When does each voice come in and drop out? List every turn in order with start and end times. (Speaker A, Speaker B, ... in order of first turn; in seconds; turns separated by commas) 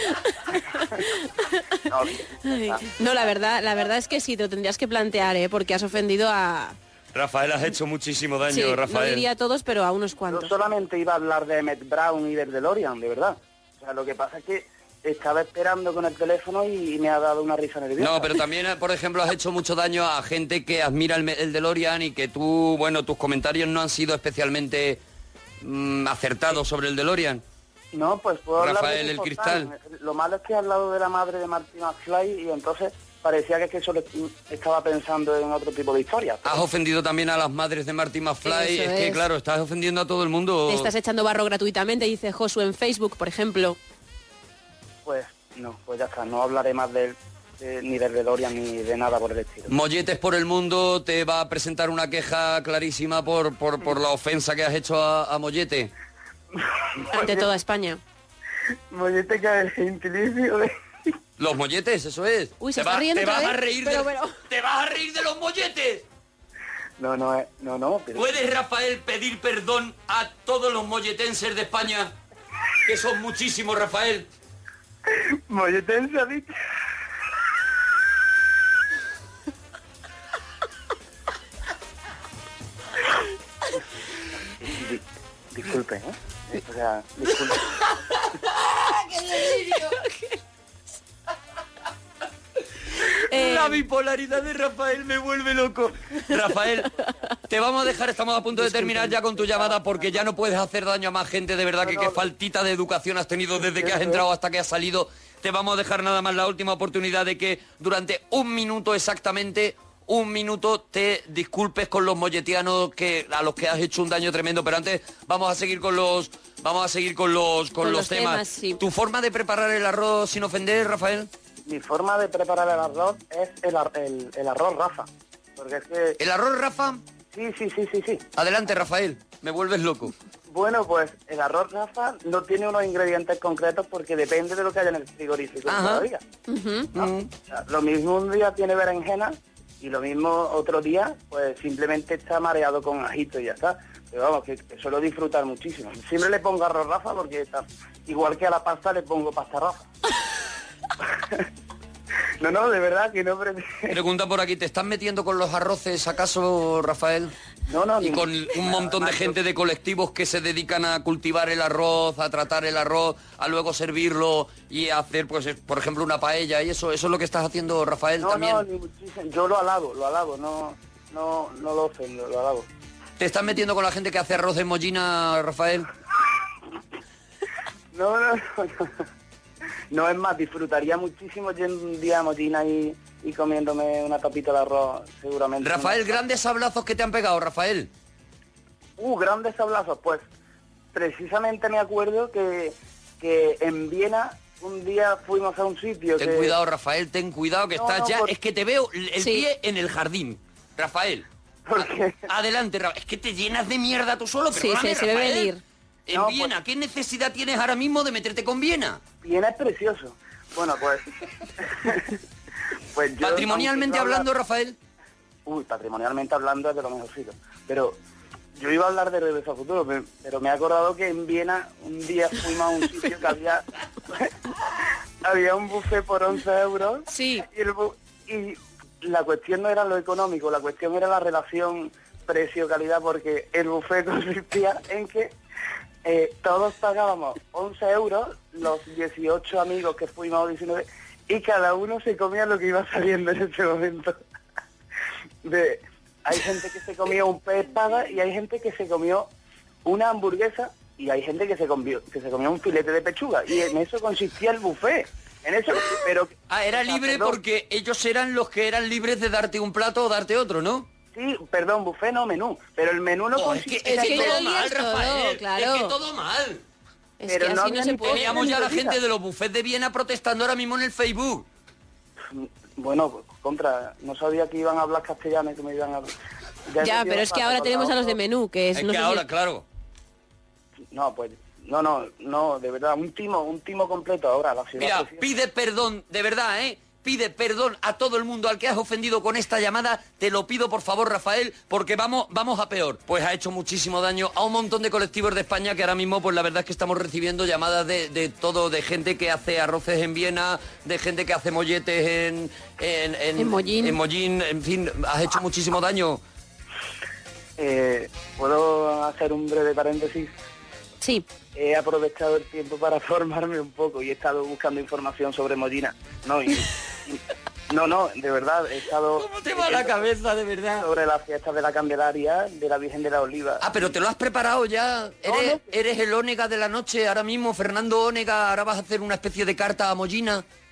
Speaker A: 0.5-1.8, Speaker B: 1.9-2.9, Speaker A: 2.4-6.8, Speaker C: 7.1-9.2, Speaker A: 8.5-10.5, Speaker B: 10.3-18.4, Speaker C: 18.0-25.0, Speaker C: 25.6-27.4, Speaker B: 27.9-36.6, Speaker C: 28.6-29.7, Speaker C: 36.4-40.9, Speaker A: 38.4-39.2, Speaker A: 40.7-43.8, Speaker B: 45.0-49.7, Speaker C: 49.7-55.9, Speaker B: 56.6-57.5, Speaker A: 57.1-58.0, Speaker B: 58.9-60.7, Speaker C: 61.4-66.0, Speaker A: 62.6-64.4, Speaker B: 67.0-68.4, Speaker C: 68.1-72.1, Speaker C: 72.8-74.3, Speaker B: 75.1-76.5, Speaker B: 84.6-87.6, Speaker C: 89.3-89.9, Speaker A: 89.5-90.3, Speaker A: 93.3-93.8, Speaker C: 93.3-96.9, Speaker C: 97.5-121.3, Speaker B: 98.5-100.3, Speaker B: 101.8-102.3, Speaker B: 103.6-104.2, Speaker A: 117.8-118.8, Speaker B: 121.7-126.2, Speaker C: 126.2-127.0, Speaker B: 127.3-128.2, Speaker C: 128.3-130.1, Speaker B: 130.5-136.2, Speaker C: 135.7-136.1, Speaker A: 136.5-136.9, Speaker C: 136.9-137.3, Speaker B: 137.0-149.9, Speaker B: 151.0-151.4, Speaker B: 152.4-154.0, Speaker C: 153.9-157.3, Speaker B: 157.7-159.4, Speaker C: 158.0-168.6, Speaker B: 168.2-172.7, Speaker C: 173.2-175.9, Speaker B: 177.9-178.9, Speaker B: 179.9-186.2, Speaker C: 185.6-187.9, Speaker B: 189.0-190.3, Speaker B: 190.9-196.5, Speaker C: 196.2-205.5, Speaker B: 197.8-198.3, Speaker A: 199.2-199.5, Speaker B: 201.7-202.3, Speaker A: 204.5-205.6, Speaker C: 206.1-209.0, Speaker B: 206.1-206.5, Speaker B: 209.2-211.0, Speaker B: 211.6-212.1, Speaker B: 212.9-214.3, Speaker C: 213.2-214.8, Speaker B: 215.4-218.0, Speaker B: 218.6-224.3, Speaker B: 225.2-235.3, Speaker A: 227.1-227.4, Speaker B: 236.0-244.1, Speaker B: 245.4-249.3, Speaker B: 249.8-257.4, Speaker C: 256.5-260.9, Speaker B: 261.1-264.4, Speaker C: 263.3-266.6, Speaker A: 263.8-265.9, Speaker A: 267.2-268.6, Speaker B: 267.3-269.0, Speaker C: 268.0-271.4, Speaker B: 272.3-276.1, Speaker B: 276.7-278.2, Speaker A: 276.8-279.2, Speaker C: 278.7-279.6, Speaker B: 280.9-285.2, Speaker C: 284.8-306.2, Speaker A: 303.4-304.0, Speaker B: 307.6-310.3, Speaker B: 311.5-320.1, Speaker C: 319.2-320.9, Speaker B: 320.8-323.8, Speaker C: 323.6-330.4, Speaker B: 325.2-325.6